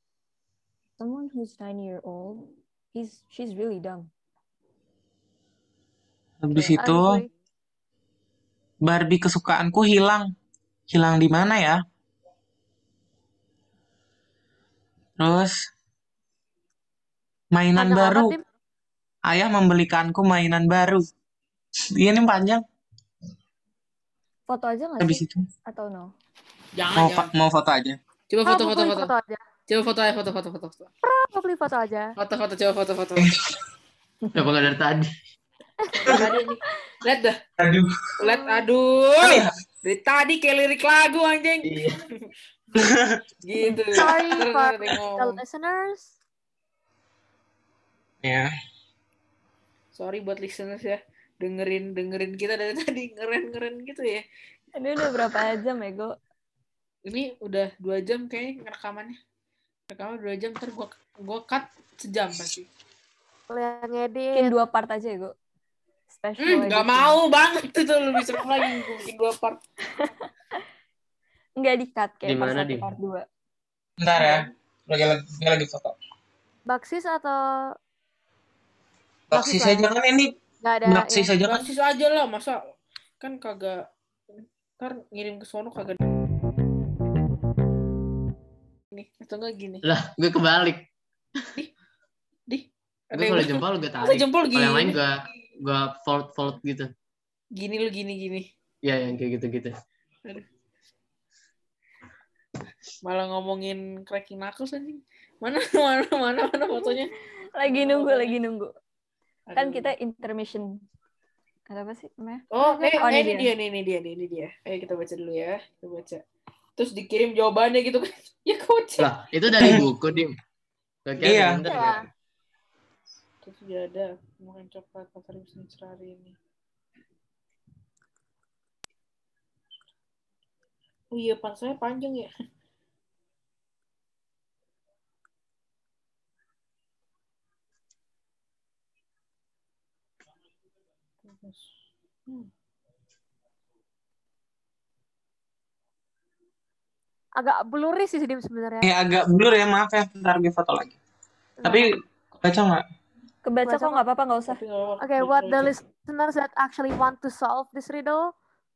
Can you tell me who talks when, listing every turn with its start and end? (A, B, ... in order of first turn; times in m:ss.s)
0:01.0-0:04.1 A
0:06.4-0:07.2 B
0:06.6-0:07.3 C
0:08.8-0:10.3 B
0:10.9-0:11.8 B
0:15.2-0:15.6 B
0:17.5-0:18.3 B
0:17.8-0:18.4 C
0:19.3-0:21.0 B
0:22.0-0:22.6 B
0:24.5-0:26.1 A
0:25.0-0:25.4 B
0:26.8-0:27.3 D
0:27.0-0:28.0 B
0:28.3-0:29.1 D
0:28.5-0:29.4 C
0:29.7-0:30.9 D
0:31.0-0:32.2 C
0:32.2-0:33.3 D
0:34.4-0:35.1 E
0:35.8-0:36.3 C
0:35.9-0:37.4 D
0:37.6-0:37.9 B
0:38.2-0:42.1 D
0:38.2-0:38.6 C
0:39.2-0:39.5 B
0:42.8-0:43.2 B
0:43.4-0:45.4 D
0:44.0-0:46.2 C
0:48.2-0:48.5 B
0:50.0-0:54.2 D
0:54.8-0:56.2 A
0:57.1-0:59.2 D
0:59.9-1:02.7 D
1:03.5-1:04.5 C
1:04.3-1:05.3 A
1:06.1-1:07.2 A
1:06.4-1:09.6 D
1:08.2-1:09.0 A
1:10.0-1:10.3 A
1:11.6-1:13.3 A
1:12.2-1:12.9 E
1:14.0-1:15.9 B
1:14.2-1:14.5 D
1:16.7-1:17.6 C
1:19.3-1:20.3 B
1:19.3-1:19.9 C
1:20.6-1:21.3 C
1:20.9-1:21.7 B
1:21.5-1:22.7 D
1:23.2-1:23.8 D
1:24.8-1:26.0 D
1:28.9-1:29.8 D
1:29.8-1:30.9 E
1:32.5-1:35.0 D
1:33.1-1:36.9 E
1:37.6-1:38.5 D
1:38.8-1:39.7 E
1:43.0-1:47.1 D
1:46.7-1:47.0 A
1:47.6-1:48.7 A
1:47.6-1:48.4 D
1:49.5-1:49.9 D
1:49.6-1:50.8 A
1:51.7-1:52.5 A
1:52.5-1:56.2 D
1:52.6-1:53.2 C
1:53.0-1:53.5 A
1:56.8-1:59.1 D
1:59.0-2:00.4 E
2:01.1-2:02.1 E
2:01.2-2:01.6 B
2:01.7-2:02.1 C
2:03.4-2:06.4 D
2:11.1-2:12.3 D
2:21.3-2:21.7 D
2:27.4-2:28.9 C
2:28.8-2:31.0 B
2:31.6-2:31.9 C
2:31.6-2:31.9 B
2:32.4-2:32.8 B
2:33.4-2:34.6 A
2:33.6-2:34.0 C
2:34.5-2:35.7 D
2:35.0-2:38.3 C